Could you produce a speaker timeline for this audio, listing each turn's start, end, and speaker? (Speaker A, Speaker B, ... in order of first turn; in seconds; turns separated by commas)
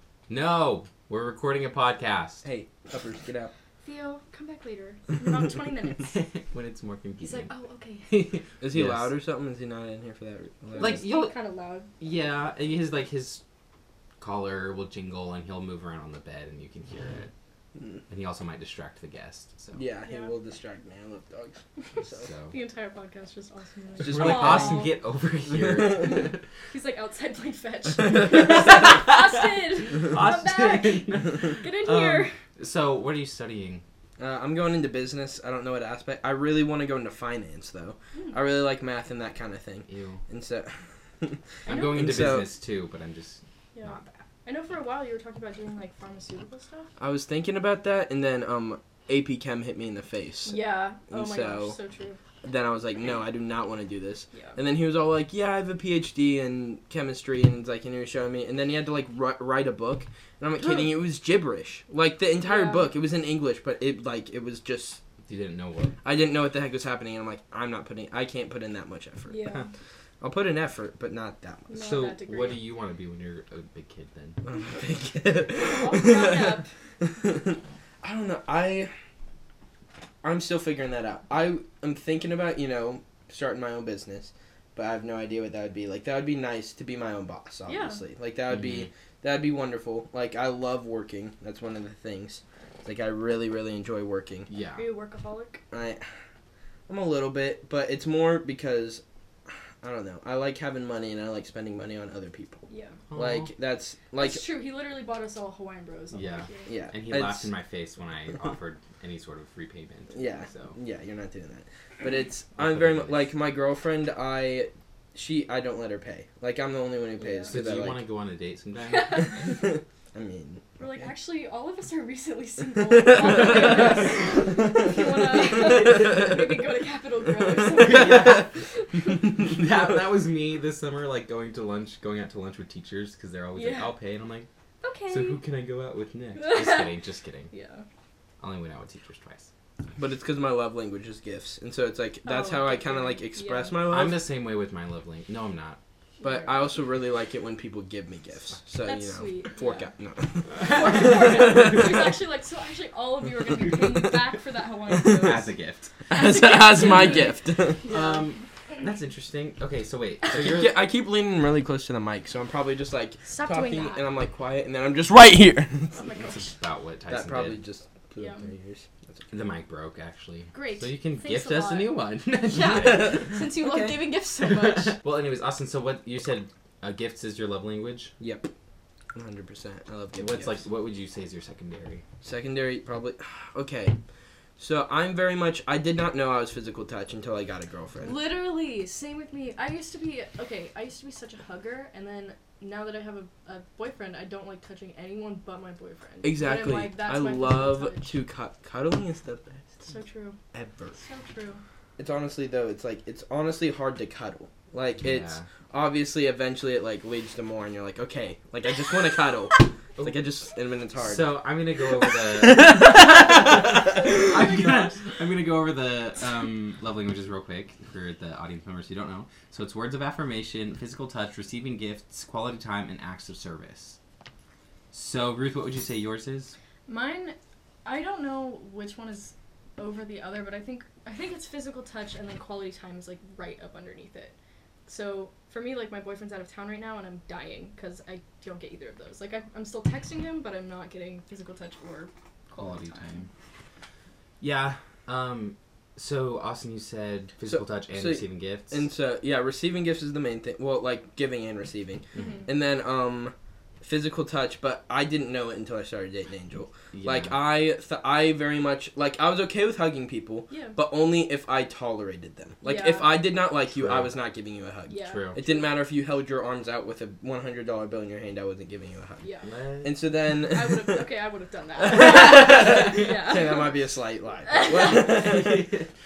Speaker A: 0.3-2.4, Speaker B: 2.4-3.5, Speaker C: 3.8-6.1, Speaker A: 6.1-7.5, Speaker C: 7.2-8.3, Speaker A: 8.1-9.1, Speaker B: 8.6-11.0, Speaker C: 10.7-11.9, Speaker A: 10.8-11.4, Speaker A: 12.0-13.4, Speaker A: 14.2-17.3, Speaker A: 18.1-19.8, Speaker B: 19.7-22.3, Speaker C: 20.0-20.3, Speaker A: 22.1-22.5, Speaker C: 22.5-25.0, Speaker A: 24.0-26.4, Speaker B: 24.0-24.9, Speaker B: 25.6-26.1, Speaker C: 26.7-32.3, Speaker A: 28.3-33.8, Speaker B: 34.2-42.5, Speaker A: 39.9-40.2, Speaker C: 41.6-42.4, Speaker A: 41.6-44.2, Speaker C: 43.7-46.9, Speaker B: 47.0-51.8, Speaker C: 50.5-52.2, Speaker B: 52.4-65.0, Speaker C: 54.3-54.6, Speaker C: 62.4-62.9, Speaker A: 65.2-66.0, Speaker B: 66.0-69.4, Speaker C: 69.3-69.7, Speaker B: 70.2-71.8, Speaker C: 71.7-72.7, Speaker A: 71.7-74.4, Speaker B: 74.4-78.9, Speaker C: 75.5-76.7, Speaker B: 80.2-94.5, Speaker C: 87.7-88.0, Speaker A: 88.5-88.9, Speaker A: 94.5-94.9, Speaker C: 94.7-95.6, Speaker B: 95.7-96.0, Speaker B: 96.9-99.0, Speaker B: 99.8-104.5, Speaker C: 102.7-103.0, Speaker A: 103.1-103.5, Speaker C: 104.2-106.7, Speaker A: 106.1-110.8, Speaker B: 106.7-107.5, Speaker B: 110.1-118.0, Speaker A: 112.5-113.3, Speaker C: 117.2-117.5, Speaker A: 117.5-119.4, Speaker C: 118.8-119.7, Speaker B: 119.4-121.1, Speaker C: 120.8-129.3, Speaker B: 123.0-126.3, Speaker A: 127.7-128.5, Speaker B: 128.0-128.3, Speaker A: 129.4-134.5, Speaker C: 133.5-133.9, Speaker C: 134.8-135.4, Speaker A: 135.1-137.5, Speaker C: 136.3-137.0, Speaker C: 137.5-137.8, Speaker A: 138.4-139.5, Speaker B: 139.9-144.2, Speaker C: 142.2-143.8, Speaker A: 143.9-145.8, Speaker C: 146.2-146.7, Speaker B: 146.2-152.1, Speaker C: 148.8-149.9, Speaker A: 150.5-152.1, Speaker C: 150.6-155.5, Speaker A: 155.0-155.9, Speaker B: 156.1-157.8, Speaker C: 156.1-158.3, Speaker A: 156.8-157.3, Speaker A: 157.8-160.8, Speaker B: 160.3-166.1, Speaker C: 163.2-164.1, Speaker C: 165.9-166.5, Speaker A: 166.2-167.6, Speaker B: 167.1-169.3, Speaker C: 168.2-168.5, Speaker A: 169.3-178.1, Speaker C: 170.5-175.0, Speaker B: 178.2-178.5, Speaker B: 179.1-180.6, Speaker A: 180.2-182.0, Speaker B: 182.2-183.9, Speaker B: 184.6-188.2, Speaker C: 188.0-198.1, Speaker B: 196.2-199.9, Speaker C: 199.8-200.4, Speaker B: 200.5-201.0, Speaker C: 200.9-201.6, Speaker B: 202.0-211.3, Speaker A: 205.0-205.5, Speaker A: 211.0-224.0, Speaker B: 212.4-214.3, Speaker C: 213.9-215.0, Speaker A: 224.9-226.5, Speaker C: 226.9-234.3, Speaker C: 234.9-243.2, Speaker A: 242.6-243.3, Speaker A: 244.4-248.8, Speaker B: 247.4-269.3, Speaker C: 252.1-252.4, Speaker A: 256.9-257.4, Speaker C: 260.5-260.8, Speaker C: 262.6-263.2, Speaker A: 263.8-264.1, Speaker C: 264.9-265.6, Speaker A: 265.0-265.4, Speaker C: 269.2-269.5, Speaker A: 269.4-270.0, Speaker B: 269.8-271.0, Speaker C: 270.5-273.7, Speaker B: 271.8-275.7, Speaker A: 272.1-273.1, Speaker C: 274.5-275.2, Speaker A: 274.8-275.9